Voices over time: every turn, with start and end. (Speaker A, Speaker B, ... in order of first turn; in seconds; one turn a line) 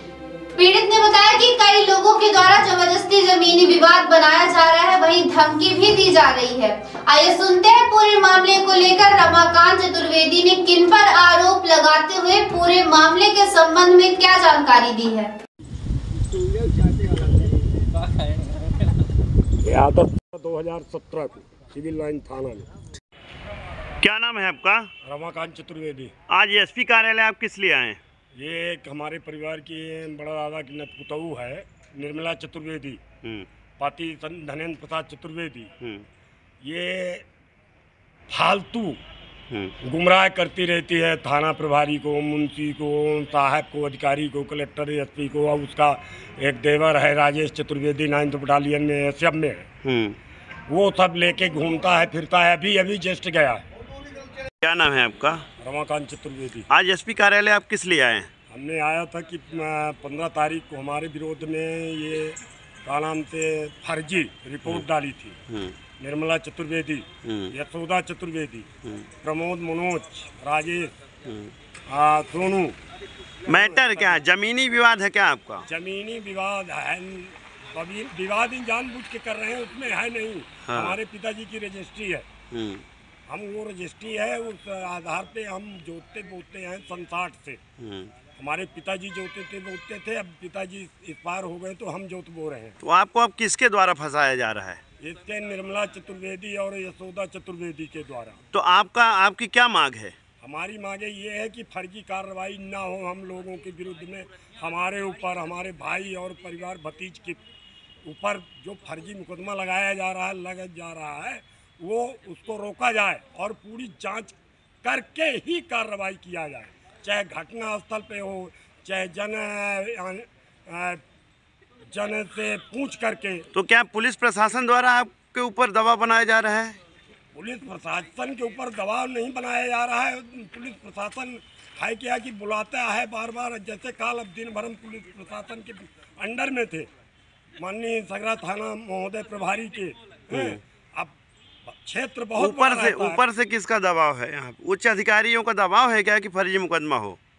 Speaker A: 0.6-15.3
Speaker B: 19.6-22.7
Speaker C: 24.0-24.9
Speaker B: 25.0-26.1
Speaker C: 26.3-28.0
Speaker B: 28.4-33.0
Speaker B: 33.8-35.7
Speaker B: 36.6-37.2
Speaker B: 38.3-39.0
Speaker B: 39.8-49.7
Speaker C: 49.9-50.2
Speaker B: 50.7-53.6
Speaker C: 54.6-55.4
Speaker B: 55.6-56.7
Speaker C: 56.7-58.3
Speaker B: 58.5-65.4
Speaker C: 65.5-65.8
Speaker B: 66.0-70.9
Speaker C: 67.2-67.5
Speaker C: 71.3-71.5
Speaker B: 71.9-72.8
Speaker B: 73.5-74.2
Speaker C: 73.5-75.7
Speaker B: 75.7-82.3
Speaker C: 80.7-81.0
Speaker C: 82.5-82.8
Speaker B: 83.3-87.6
Speaker C: 87.8-88.1
Speaker B: 88.3-92.8
Speaker C: 92.8-94.8
Speaker B: 95.0-98.4
Speaker C: 98.5-100.1
Speaker B: 100.4-107.4
Speaker B: 108.0-121.0
Speaker B: 121.9-123.5
Speaker C: 123.5-126.8
Speaker B: 127.3-136.9
Speaker B: 137.6-141.2
Speaker C: 140.3-140.6
Speaker B: 141.7-143.2
Speaker C: 142.4-147.2